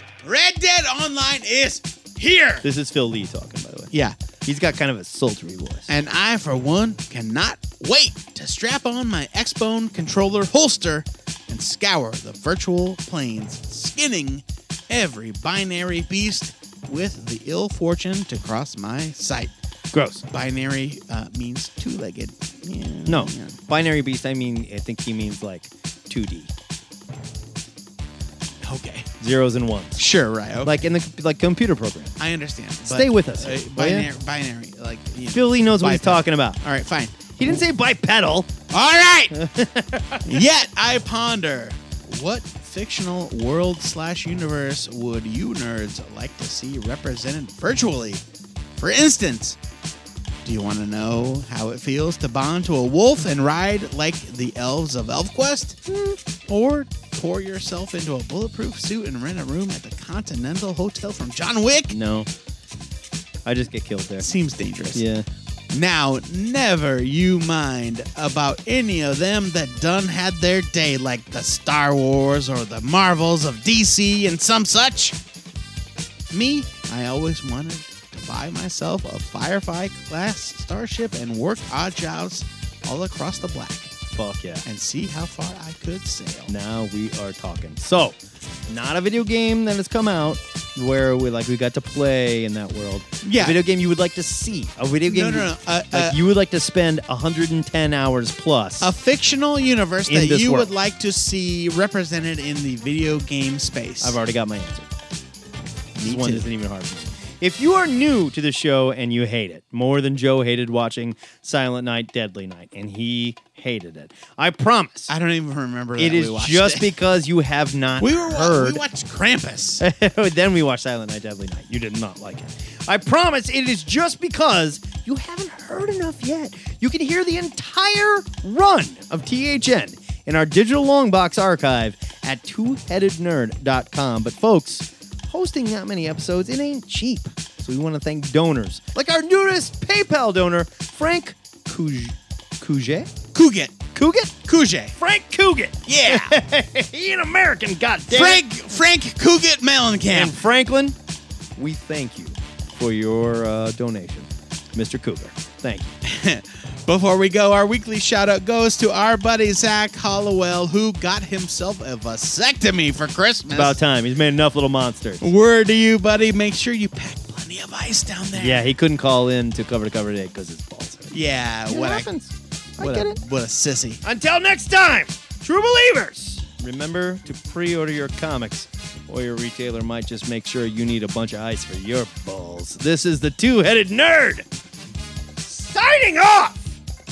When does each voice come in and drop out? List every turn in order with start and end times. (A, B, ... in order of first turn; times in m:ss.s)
0:00.2-0:02.6 A
0:02.6-0:03.9 B
0:04.4-0:05.9 B
0:05.9-0:19.5 A
0:19.9-0:20.2 B
0:20.2-0:23.6 A
0:23.1-0:26.5 B
0:28.6-0:29.1 A
0:29.2-0:30.0 B
0:30.0-0:30.8 A
0:30.6-0:32.2 B
0:32.2-0:37.4 A
0:32.8-0:34.1 B
0:35.3-0:36.6 B
0:37.4-0:38.5 B
0:38.7-0:39.4 A
0:39.3-0:40.4 B
0:40.2-0:48.2 A
0:48.8-0:49.6 A
0:50.4-0:55.8 A
0:55.9-0:56.2 B
0:56.5-1:01.9 A
1:01.9-1:02.3 B
1:03.4-1:04.3 B
1:04.2-1:05.0 A
1:04.9-1:05.3 B
1:05.7-1:15.2 A
1:16.3-1:24.0 A
1:24.1-1:24.6 B
1:24.6-1:26.5 A
1:26.5-1:28.2 B
1:28.7-1:38.9 B
1:33.2-1:33.6 A
1:35.1-1:36.2 A
1:38.8-1:44.2 A
1:40.1-1:40.7 B
1:44.0-1:44.9 B
1:46.0-1:46.5 A
1:46.0-1:55.1 B
1:55.1-1:56.9 A
1:56.0-1:58.8 B
1:58.0-1:59.8 A
1:59.8-2:23.1 B
2:23.3-2:23.8 A
2:24.0-2:24.4 B
2:24.5-2:25.0 A
2:25.0-2:28.4 B
2:25.9-2:26.4 A
2:28.1-2:30.4 A
2:30.1-2:31.0 B
2:31.6-2:35.9 B
2:36.0-2:43.8 A
2:43.5-2:45.3 B
2:45.2-2:48.7 A
2:48.4-2:51.1 B
2:51.1-2:52.1 A
2:51.7-2:53.2 B
2:52.8-2:54.0 A
2:54.0-3:04.5 B
3:05.4-3:06.8 B